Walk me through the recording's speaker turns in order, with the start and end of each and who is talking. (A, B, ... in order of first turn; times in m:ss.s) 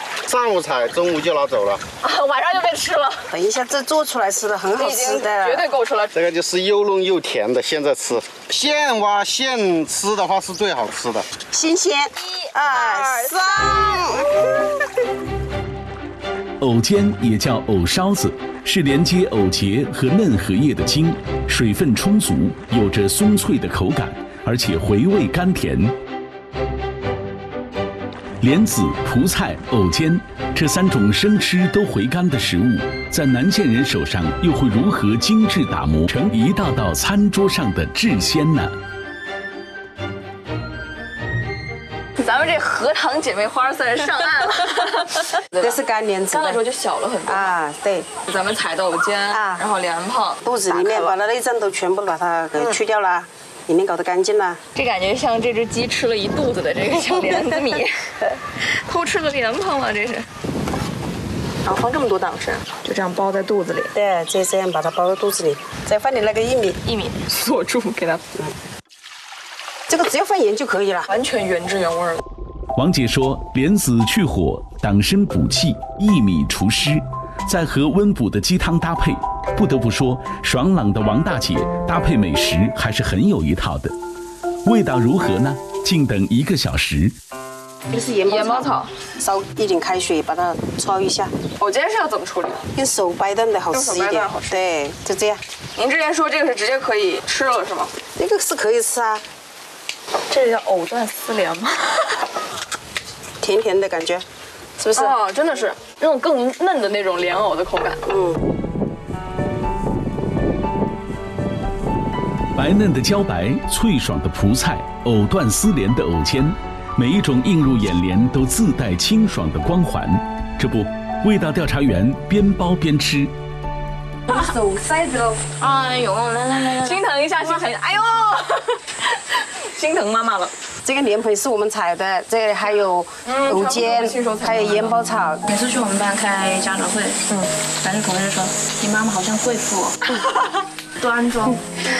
0:00.2-0:01.8 A
0:02.0-0:03.3 B
0:03.3-0:05.6 C
0:04.7-0:06.1 B
0:06.1-0:11.3 A
0:11.5-0:14.3 C
0:12.2-0:14.7 B
0:16.6-0:25.9 D
0:28.4-0:38.7 D
0:42.2-0:45.8 B
0:45.6-0:46.6 C
0:46.3-0:47.5 B
0:47.3-0:48.1 C
0:48.2-0:51.0 B
0:49.3-0:49.6 C
0:50.4-0:54.6 C
0:54.7-1:00.3 B
1:02.7-1:03.9 B
1:03.9-1:06.8 C
1:06.8-1:08.2 B
1:09.9-1:11.1 C
1:11.1-1:12.2 B
1:12.8-1:23.9 D
1:24.6-1:27.1 D
1:27.9-1:31.3 C
1:28.2-1:28.9 B
1:31.6-1:32.7 B
1:32.7-1:35.4 C
1:33.7-1:34.6 B
1:35.8-1:37.9 B
1:38.2-1:39.2 C
1:40.3-1:42.2 B
1:43.4-1:44.2 C
1:44.8-1:45.2 C
1:44.9-1:48.1 B
1:48.0-1:48.4 C
1:52.6-2:03.3 D
2:04.3-2:05.4 C
2:05.4-2:07.7 E
2:06.8-2:10.5 B
2:10.8-2:15.4 C
2:13.2-2:15.0 B
2:15.4-2:17.2 E
2:17.8-2:19.9 E
2:21.0-2:21.6 E